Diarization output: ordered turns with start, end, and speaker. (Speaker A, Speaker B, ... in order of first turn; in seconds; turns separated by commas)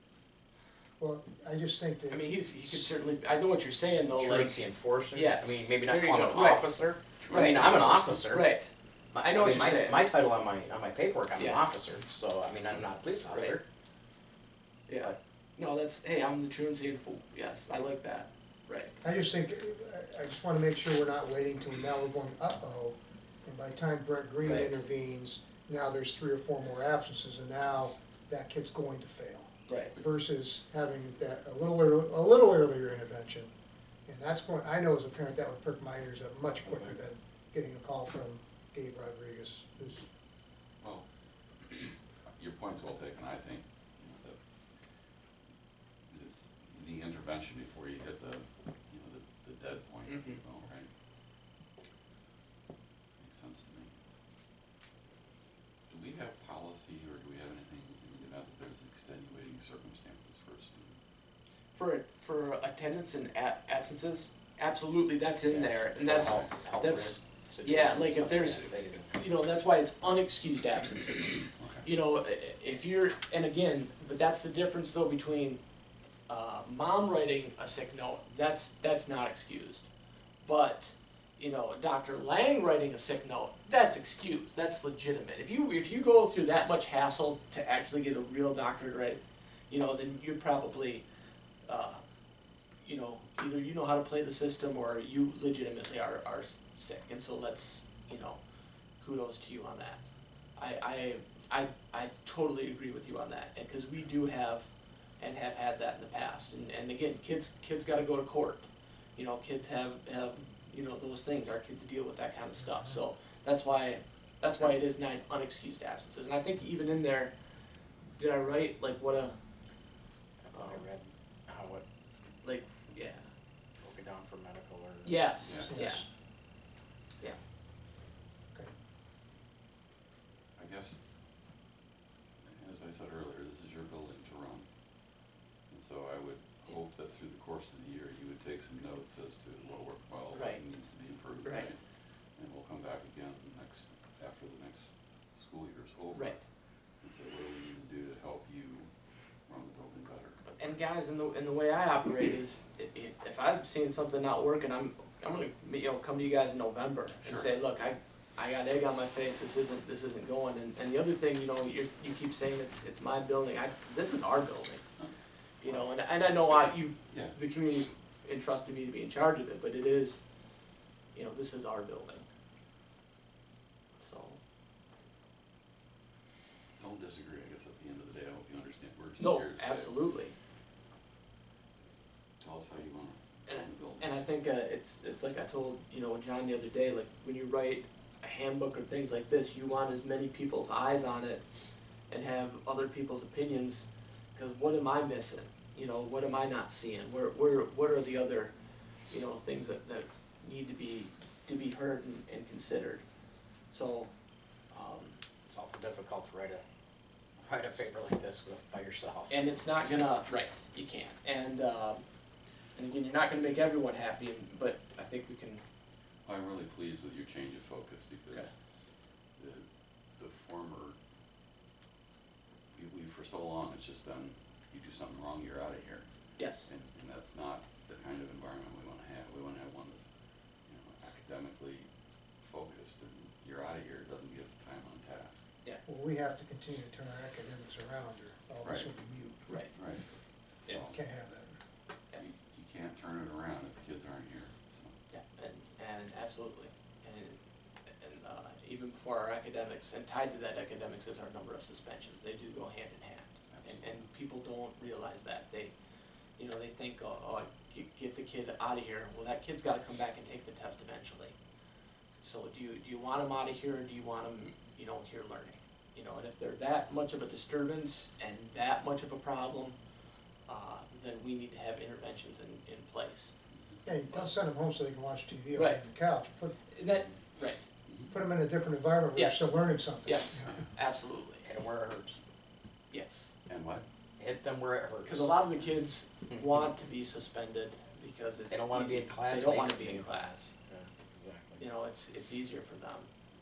Speaker A: 1.0-2.9, Speaker B: 2.1-10.0, Speaker C: 4.1-8.5, Speaker D: 7.2-8.2, Speaker C: 9.1-13.6, Speaker B: 11.3-11.7, Speaker B: 13.3-13.6, Speaker B: 14.9-19.0, Speaker A: 19.0-33.5, Speaker B: 24.4-24.7, Speaker B: 29.7-29.9, Speaker A: 34.0-40.1, Speaker D: 36.6-37.0, Speaker D: 40.8-45.3, Speaker D: 46.1-50.9, Speaker B: 50.1-50.4, Speaker D: 53.2-53.9, Speaker D: 55.9-61.0, Speaker B: 61.7-75.6, Speaker C: 65.4-69.2, Speaker D: 66.1-66.4, Speaker D: 71.5-71.8, Speaker B: 76.3-79.9, Speaker B: 80.4-91.0, Speaker B: 91.7-92.0, Speaker B: 92.8-98.4, Speaker B: 99.0-117.3, Speaker B: 118.2-119.3, Speaker C: 120.4-121.8, Speaker B: 120.5-120.8, Speaker B: 122.4-123.3, Speaker C: 123.8-125.2, Speaker B: 125.0-126.0, Speaker D: 125.4-125.7, Speaker A: 125.5-126.1, Speaker D: 130.6-131.0, Speaker D: 132.4-150.4, Speaker B: 140.3-140.6, Speaker B: 141.4-141.7, Speaker B: 146.1-146.4, Speaker B: 150.5-164.8, Speaker D: 157.2-157.5, Speaker B: 165.6-170.2, Speaker D: 167.1-167.4, Speaker B: 171.1-172.2, Speaker B: 174.0-174.4, Speaker D: 176.8-180.0, Speaker B: 179.2-180.3, Speaker D: 182.4-184.3, Speaker B: 183.5-191.5, Speaker B: 192.1-198.5, Speaker B: 199.1-203.0, Speaker B: 203.7-204.1, Speaker B: 204.7-205.2, Speaker C: 205.4-206.6, Speaker C: 207.4-209.4, Speaker B: 209.3-212.0, Speaker B: 212.7-215.6, Speaker D: 216.2-220.9, Speaker D: 222.7-235.5, Speaker B: 226.4-226.7, Speaker A: 235.8-240.0, Speaker D: 238.6-238.9, Speaker B: 239.4-241.0, Speaker D: 239.7-241.3, Speaker A: 240.9-241.6, Speaker D: 242.1-244.9, Speaker B: 245.1-247.4, Speaker B: 248.0-255.7, Speaker D: 253.5-254.1, Speaker B: 256.4-261.3, Speaker B: 262.2-269.7, Speaker B: 270.5-273.3, Speaker D: 273.5-273.8, Speaker A: 273.8-276.6, Speaker B: 275.5-275.8, Speaker B: 276.7-277.7, Speaker D: 277.8-278.1, Speaker A: 278.1-280.6, Speaker B: 279.1-281.4, Speaker C: 281.4-282.2, Speaker B: 282.9-283.3, Speaker D: 283.4-283.8, Speaker C: 284.2-285.4, Speaker B: 285.0-290.5, Speaker C: 288.5-291.6, Speaker B: 291.6-293.1